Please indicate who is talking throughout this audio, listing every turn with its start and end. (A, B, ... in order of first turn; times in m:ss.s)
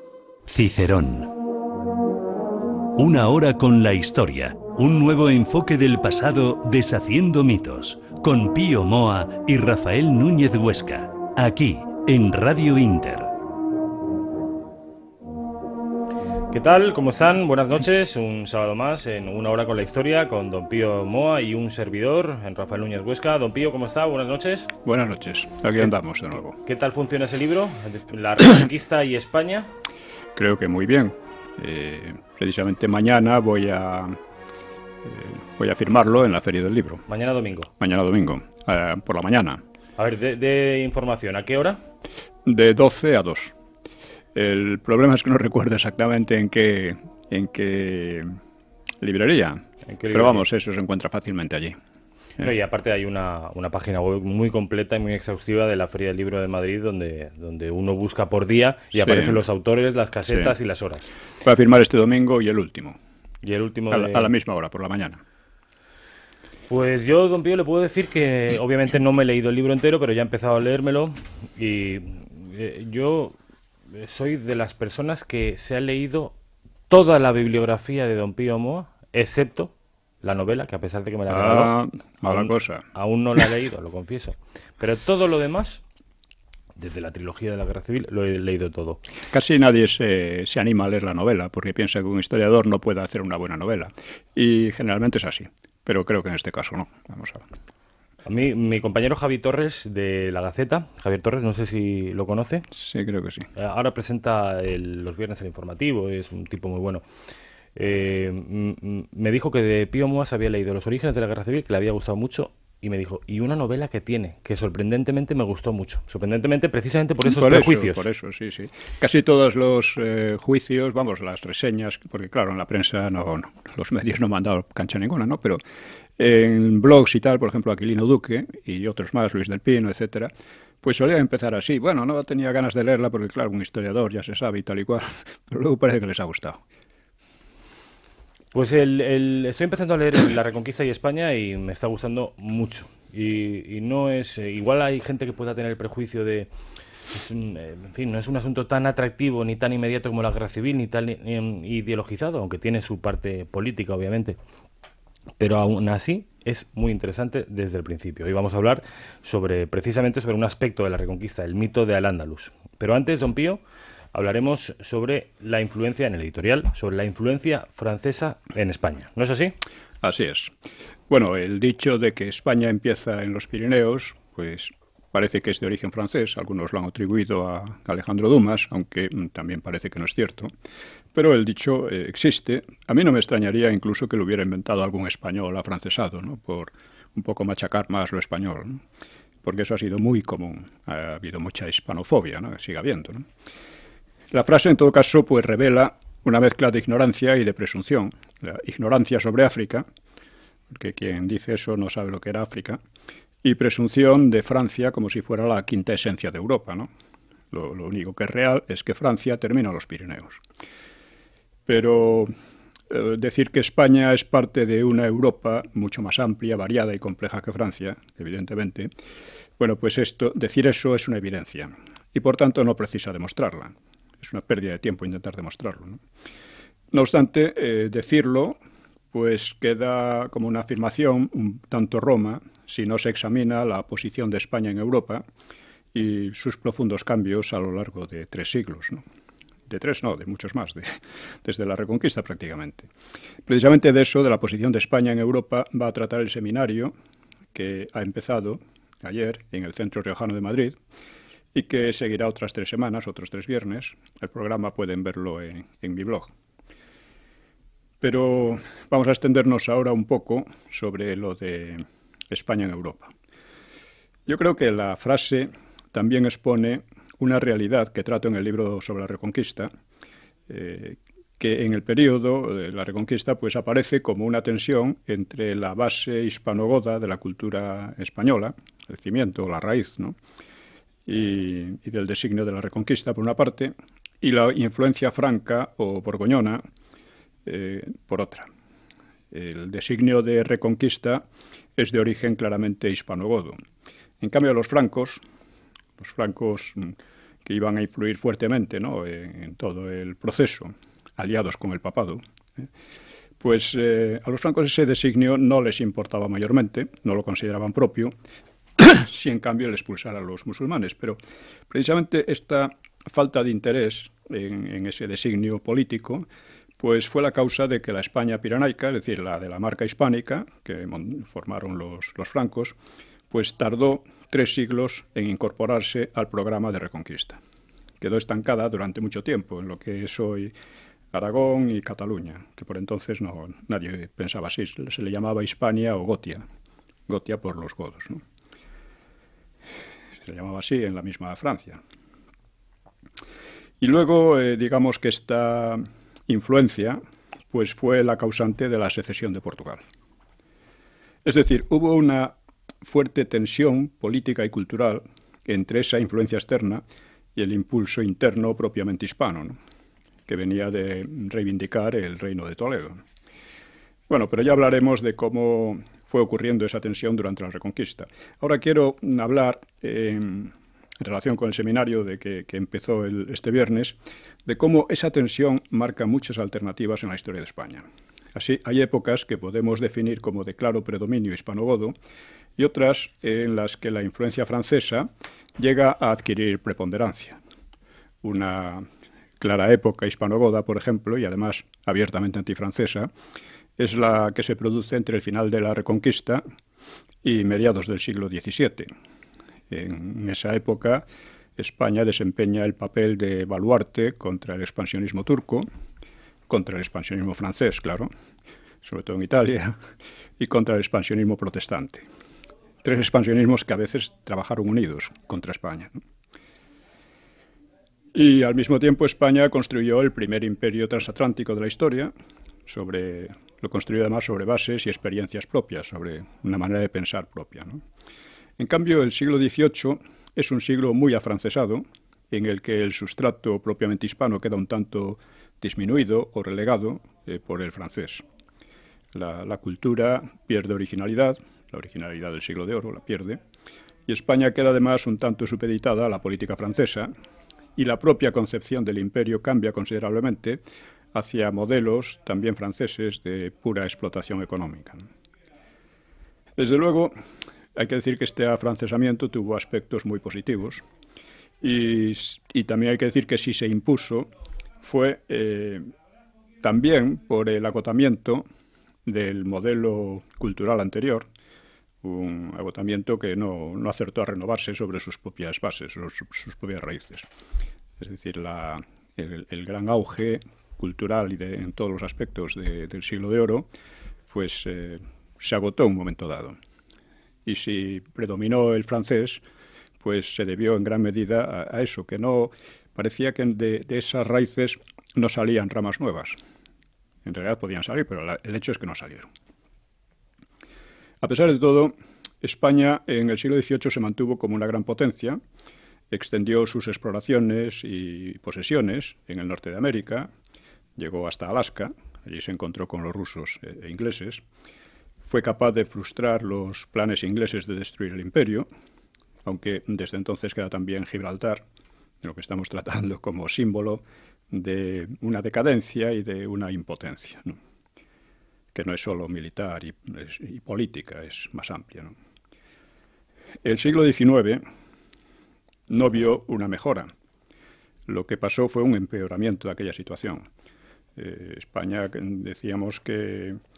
0:00.5-0:01.3 A
0:03.0-0:13.3 A
0:16.5-0:24.7 B
0:24.8-0:26.6 C
0:26.6-0:29.7 B
0:30.4-0:34.2 C
0:35.0-0:37.0 C
0:37.1-0:37.7 B
0:37.8-0:39.6 C
0:40.0-0:41.8 B
0:42.4-0:43.6 C
0:44.4-0:48.3 C
0:49.0-0:51.8 C
0:49.9-0:50.5 B
0:52.4-1:01.1 B
0:59.0-0:59.4 C
1:00.3-1:00.6 C
1:01.4-1:03.0 C
1:03.4-1:04.3 B
1:03.9-1:05.2 C
1:06.7-1:13.4 B
1:13.9-1:16.4 B
1:16.9-1:25.8 B
1:21.3-1:22.8 C
1:26.8-1:29.0 B
1:29.3-1:37.5 C
1:38.3-1:42.7 B
1:42.7-1:43.5 C
1:43.6-1:47.0 B
1:47.8-1:58.0 B
1:57.2-2:05.6 C
2:06.2-2:10.3 C
2:10.8-2:16.6 C
2:18.5-2:26.5 B
2:27.1-2:34.4 B
2:35.4-2:43.6 B
2:44.1-2:49.6 B
2:50.0-2:50.5 C
2:51.1-3:00.5 C
3:01.1-3:08.8 C
3:09.4-3:13.3 C
3:14.3-3:19.8 C
3:20.7-3:22.8 C
3:23.4-3:26.9 C
3:27.5-3:30.4 C
3:31.7-3:32.3 C
3:32.9-3:38.9 C
3:39.6-3:46.0 C
3:46.9-3:48.6 C
3:49.1-3:55.2 C
3:55.9-3:59.0 C
3:59.7-4:02.9 C
4:03.5-4:06.9 C
4:07.5-4:10.8 C
4:11.5-4:16.3 C
4:18.0-4:23.1 C
4:24.3-4:29.7 C
4:30.5-4:40.2 C
4:41.1-4:46.6 C
4:47.5-4:48.5 C
4:49.3-4:51.3 C
4:51.8-4:53.6 C
4:54.2-4:55.2 C
4:56.0-5:02.7 C
5:03.4-5:08.1 C
5:08.8-5:11.2 C
5:11.7-5:16.3 C
5:16.8-5:22.8 C
5:23.3-5:27.4 C
5:28.0-5:30.5 C
5:31.1-5:36.4 C
5:37.1-5:38.2 C
5:40.2-5:41.8 C
5:43.8-5:47.0 C
5:47.5-5:49.8 C
5:51.2-5:56.8 C
5:57.4-5:59.6 C
6:00.3-6:03.0 C
6:04.1-6:22.0 C
6:22.6-6:27.4 C
6:28.2-6:28.9 C
6:29.4-6:33.1 C
6:33.8-6:36.4 C
6:37.2-6:38.9 C
6:39.7-6:41.0 C
6:41.6-6:45.7 C
6:46.5-6:48.1 C
6:48.8-6:49.8 C
6:50.4-6:52.1 C
6:52.8-6:56.0 C
6:58.1-7:02.1 C
7:02.7-7:07.8 C
7:08.6-7:18.2 C
7:19.1-7:23.4 C
7:24.1-7:27.1 C
7:27.8-7:30.6 C
7:31.1-7:35.1 C
7:36.6-7:37.1 C
7:37.8-7:40.8 C
7:41.6-7:44.3 C
7:44.8-7:45.9 C
7:46.6-7:48.5 C
7:49.1-7:51.3 C
7:52.0-7:57.3 C
7:58.0-8:03.7 C
8:04.3-8:06.6 C
8:07.5-8:09.4 C
8:10.0-8:16.4 C
8:17.2-8:19.3 C
8:21.2-8:25.4 C
8:26.1-8:30.3 C
8:31.0-8:34.4 C
8:35.2-8:38.7 C
8:39.4-8:41.6 C
8:42.2-8:47.6 C
8:48.7-8:52.1 C
8:53.6-8:54.6 C
8:55.9-8:57.1 C
8:58.1-9:00.5 C
9:01.2-9:03.6 C